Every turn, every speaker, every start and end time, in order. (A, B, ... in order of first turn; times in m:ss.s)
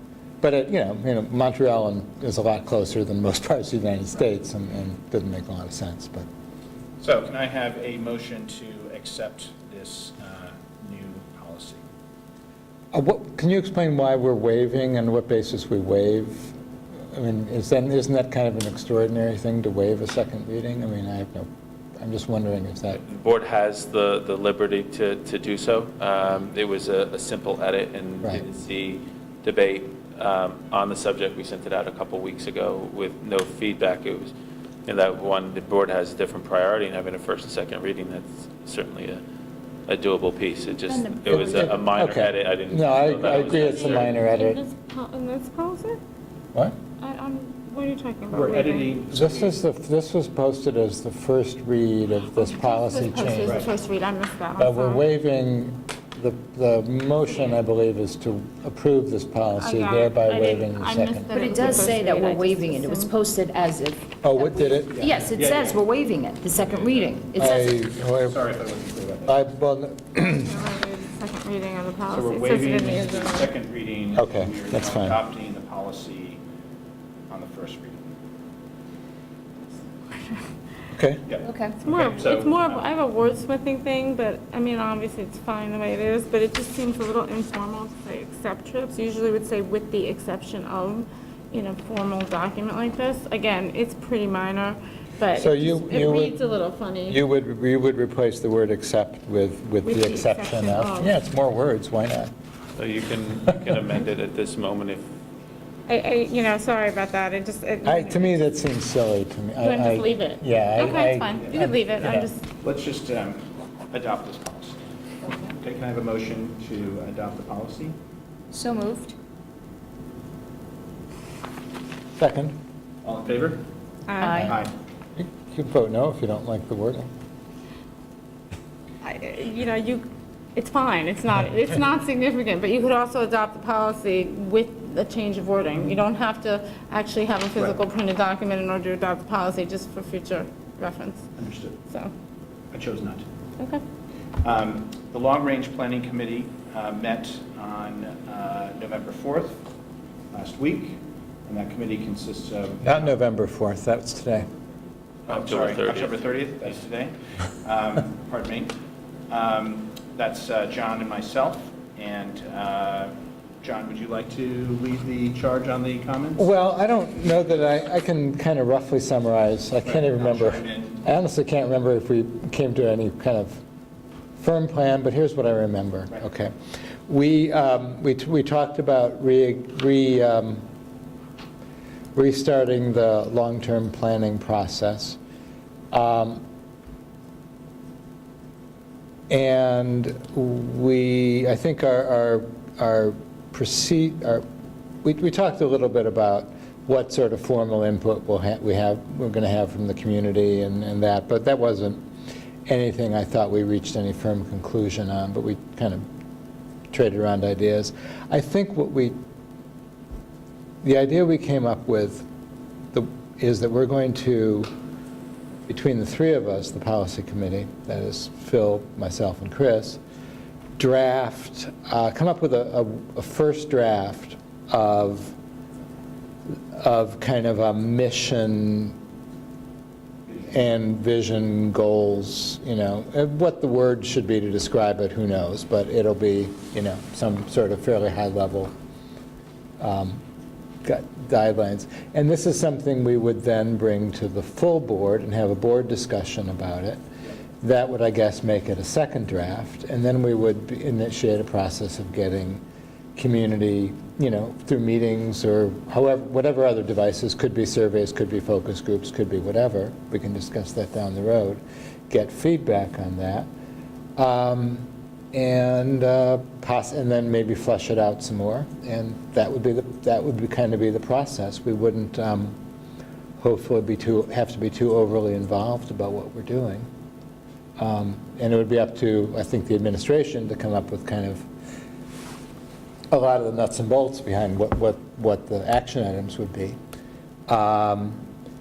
0:00.4-0:06.3 A
0:07.0-0:11.8 B
0:12.9-0:16.5 A
0:17.1-0:23.0 A
0:22.9-0:34.3 C
0:34.8-0:39.2 C
0:39.9-0:44.2 C
0:40.9-0:41.8 D
0:41.3-0:44.6 A
0:43.5-0:46.0 E
0:47.0-0:49.0 E
0:48.3-0:49.6 B
0:49.1-0:53.7 A
0:52.4-0:55.0 E
0:53.4-0:53.7 B
0:54.6-1:01.9 A
0:59.6-1:03.1 E
1:01.3-1:07.8 D
1:04.2-1:05.0 A
1:04.9-1:05.8 B
1:06.5-1:09.5 B
1:07.4-1:08.4 A
1:09.3-1:10.5 A
1:10.1-1:13.5 E
1:12.1-1:16.4 B
1:14.1-1:15.2 A
1:17.3-1:18.1 B
1:20.2-1:20.4 E
1:20.9-1:21.2 A
1:21.2-1:22.8 B
1:21.4-1:21.8 D
1:21.8-1:37.2 E
1:35.3-1:36.4 A
1:37.1-1:42.3 A
1:39.8-1:41.2 E
1:42.8-1:45.0 C
1:45.9-1:48.4 E
1:47.8-1:52.3 A
1:49.6-1:52.5 E
1:52.6-1:54.8 B
1:55.4-1:57.9 B
1:58.5-1:59.1 D
2:02.2-2:02.6 A
2:03.0-2:03.6 B
2:04.1-2:04.5 E
2:04.2-2:04.6 D
2:04.3-2:04.7 B
2:05.2-2:07.1 A
2:09.0-2:10.0 E
2:10.5-2:21.2 E
2:21.4-2:21.8 B
2:21.9-2:22.1 E
2:22.7-2:23.2 B
2:23.6-2:23.8 E
2:24.4-2:29.6 B
2:30.3-2:33.1 B
2:32.8-2:34.5 A
2:35.3-2:38.7 B
2:35.3-2:36.2 C
2:39.3-2:46.5 B
2:46.4-2:53.6 A
2:49.8-2:51.0 B
2:54.4-2:56.5 A
2:57.1-3:00.6 A
3:02.1-3:05.2 A
3:05.9-3:06.4 A
3:09.3-3:14.4 A
3:15.0-3:22.0 A
3:22.6-3:26.0 A
3:26.9-3:29.2 A
3:30.8-3:32.2 A
3:32.9-3:34.7 A
3:35.7-3:40.0 A
3:40.8-3:45.4 A
3:46.7-3:49.0 A
3:50.5-3:58.7 A
3:59.8-4:00.2 A
4:00.8-4:07.0 A
4:07.6-4:12.6 A
4:13.2-4:23.5 A
4:24.2-4:32.6 A
4:33.4-4:36.9 A
4:37.8-4:41.5 A
4:43.1-4:46.8 A
4:47.5-4:48.2 A